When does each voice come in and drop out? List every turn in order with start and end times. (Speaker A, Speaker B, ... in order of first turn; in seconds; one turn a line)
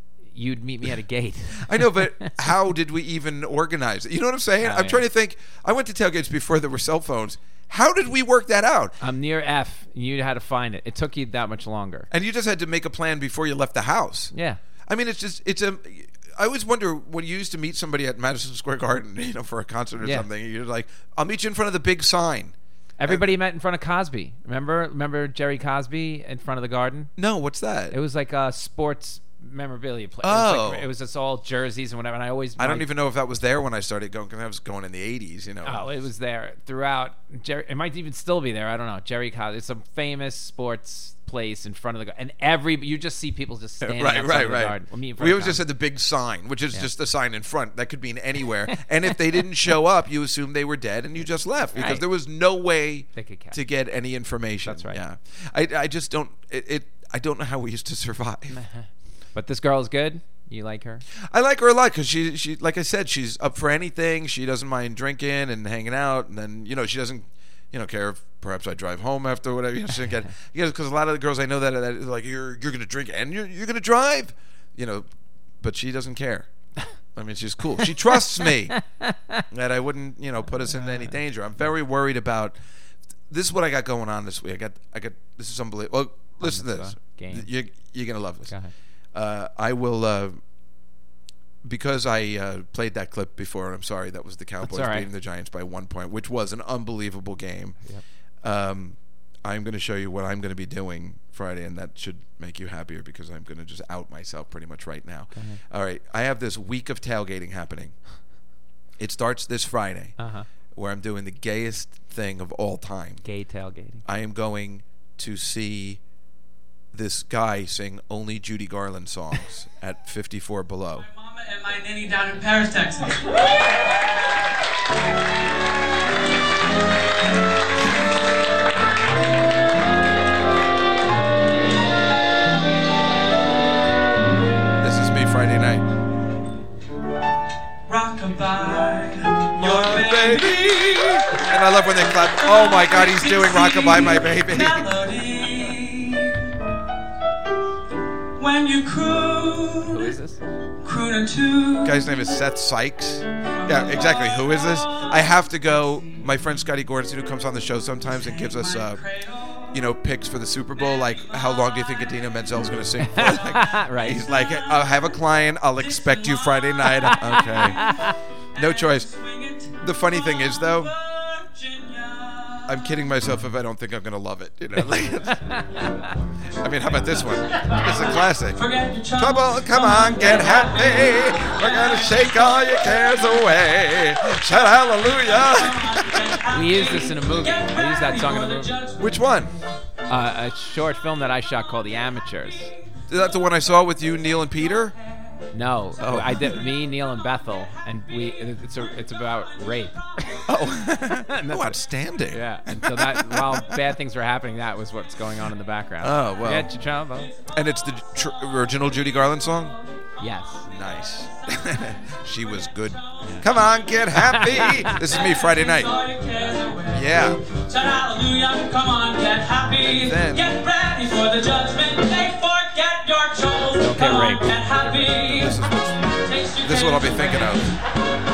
Speaker A: 0.3-2.5
Speaker B: 1.6-8.9
Speaker A: 4.6-5.0
Speaker A: 9.0-12.1
Speaker B: 12.1-14.3
Speaker A: 14.3-14.6
Speaker B: 14.9-22.5
Speaker A: 20.0-20.3
Speaker A: 23.0-27.1
Speaker B: 27.2-28.0
Speaker A: 27.9-32.9
Speaker B: 30.2-30.9
Speaker B: 32.6-35.9
Speaker A: 35.6-45.6
Speaker B: 43.8-58.6
Speaker A: 51.8-52.0
Speaker A: 53.2-53.6
Speaker A: 54.6-55.0
Speaker A: 58.5-61.0
Speaker B: 61.2-75.1
Speaker B: 75.6-76.5
Speaker B: 77.2-78.8
Speaker A: 78.7-79.4
Speaker B: 79.5-82.6
Speaker A: 80.6-81.2
Speaker B: 83.3-88.5
Speaker A: 86.4-87.5
Speaker A: 88.5-88.7
Speaker B: 89.1-90.4
Speaker B: 91.6-97.8
Speaker A: 94.6-95.1
Speaker B: 98.4-108.0
Speaker A: 105.3-105.6
Speaker B: 109.0-110.2
Speaker A: 110.2-110.5
Speaker B: 110.7-113.2
Speaker A: 113.2-114.0
Speaker B: 114.0-116.0
Speaker B: 116.9-121.0
Speaker C: 121.0-123.9
Speaker B: 134.8-135.9
Speaker C: 137.9-146.6
Speaker B: 139.5-144.9
Speaker C: 148.4-150.2
Speaker A: 149.9-150.4
Speaker C: 150.8-152.1
Speaker B: 151.8-159.0
Speaker C: 153.4-156.3
Speaker C: 158.1-159.8
Speaker B: 159.7-167.8
Speaker C: 160.8-162.3
Speaker A: 163.0-164.2
Speaker C: 164.2-165.1
Speaker C: 165.8-172.8
Speaker A: 167.1-168.2
Speaker B: 168.6-169.1
Speaker B: 169.8-170.9
Speaker B: 172.7-175.6
Speaker A: 175.4-176.2
Speaker B: 176.6-178.6
Speaker C: 176.9-189.3
Speaker B: 179.1-186.4
Speaker A: 186.5-188.8
Speaker B: 189.0-189.5
Speaker A: 190.1-192.7
Speaker B: 193.1-194.9
Speaker C: 194.4-195.4
Speaker A: 195.5-200.5
Speaker B: 196.0-196.6
Speaker C: 196.1-200.8
Speaker B: 200.5-203.7
Speaker A: 201.3-201.8
Speaker A: 202.3-207.3
Speaker B: 206.0-206.7
Speaker B: 207.5-209.8
Speaker C: 208.3-208.7
Speaker C: 209.5-227.9
Speaker A: 210.2-210.7
Speaker B: 210.7-215.9
Speaker A: 214.1-215.1
Speaker B: 216.9-217.4
Speaker B: 219.8-220.6
Speaker A: 223.8-225.5
Speaker B: 225.3-227.7